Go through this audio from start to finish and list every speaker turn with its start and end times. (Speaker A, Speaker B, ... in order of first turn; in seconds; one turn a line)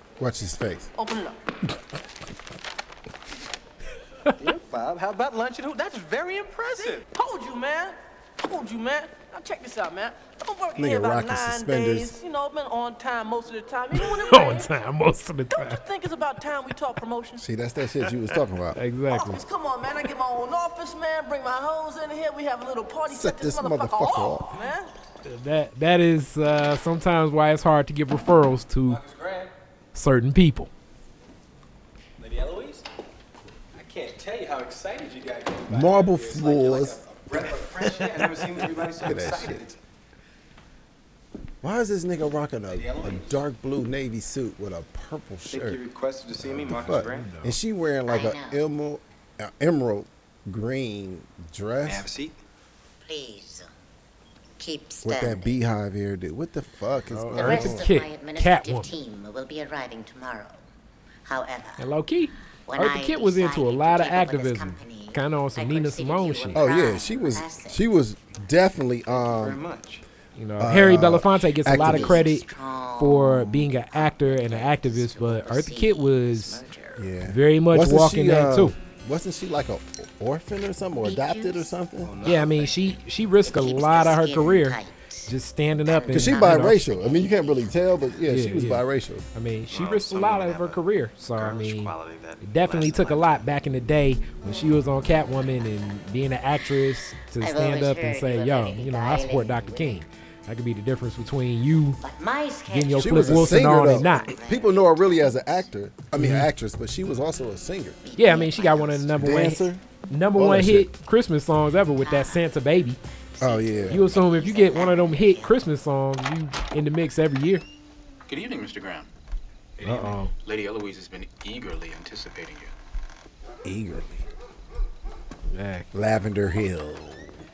Speaker A: 0.2-0.9
Speaker B: 1.0-1.4
Speaker C: 4.4-7.0
Speaker B: 6.8-14.7
Speaker A: 10.8-12.1
Speaker D: 13.9-15.8
Speaker B: 15.5-17.4
Speaker A: 17.4-18.8
Speaker D: 18.7-19.4
Speaker B: 19.1-24.9
Speaker A: 23.1-24.5
Speaker D: 25.2-29.0
Speaker C: 28.9-29.5
Speaker D: 29.9-30.7
Speaker C: 32.2-32.8
Speaker C: 33.7-39.8
Speaker A: 35.7-37.0
Speaker A: 37.6-38.4
Speaker A: 39.0-39.6
Speaker A: 41.6-45.8
Speaker C: 42.7-43.4
Speaker C: 45.5-47.3
Speaker A: 46.4-52.1
Speaker D: 46.7-47.5
Speaker E: 48.0-48.6
Speaker C: 51.8-52.4
Speaker E: 53.0-53.7
Speaker E: 54.6-55.6
Speaker A: 55.0-57.9
Speaker D: 57.1-58.9
Speaker E: 57.3-60.6
Speaker E: 61.2-61.9
Speaker D: 61.8-66.7
Speaker E: 62.7-67.8
Speaker A: 66.5-69.6
Speaker C: 69.1-70.0
Speaker D: 70.3-76.6
Speaker A: 70.6-72.2
Speaker E: 71.7-76.9
Speaker C: 76.6-77.0
Speaker A: 77.0-82.1
Speaker D: 77.2-78.7
Speaker C: 82.0-83.0
Speaker D: 82.2-86.8
Speaker E: 83.4-85.3
Speaker E: 85.8-87.8
Speaker A: 86.1-89.2
Speaker D: 88.3-102.0
Speaker C: 89.7-90.8
Speaker C: 91.3-93.4
Speaker E: 97.4-100.0
Speaker E: 102.0-105.6
Speaker D: 102.7-104.3
Speaker A: 102.9-108.0
Speaker D: 106.2-106.5
Speaker E: 108.0-109.2
Speaker D: 108.2-113.0
Speaker A: 109.1-109.8
Speaker A: 110.3-110.9
Speaker E: 112.0-112.4
Speaker E: 113.4-115.6
Speaker A: 113.4-114.1
Speaker D: 113.9-117.6
Speaker F: 118.3-119.1
Speaker F: 119.8-122.7
Speaker D: 119.8-120.3
Speaker A: 123.6-124.2
Speaker D: 125.5-125.9
Speaker A: 125.9-127.4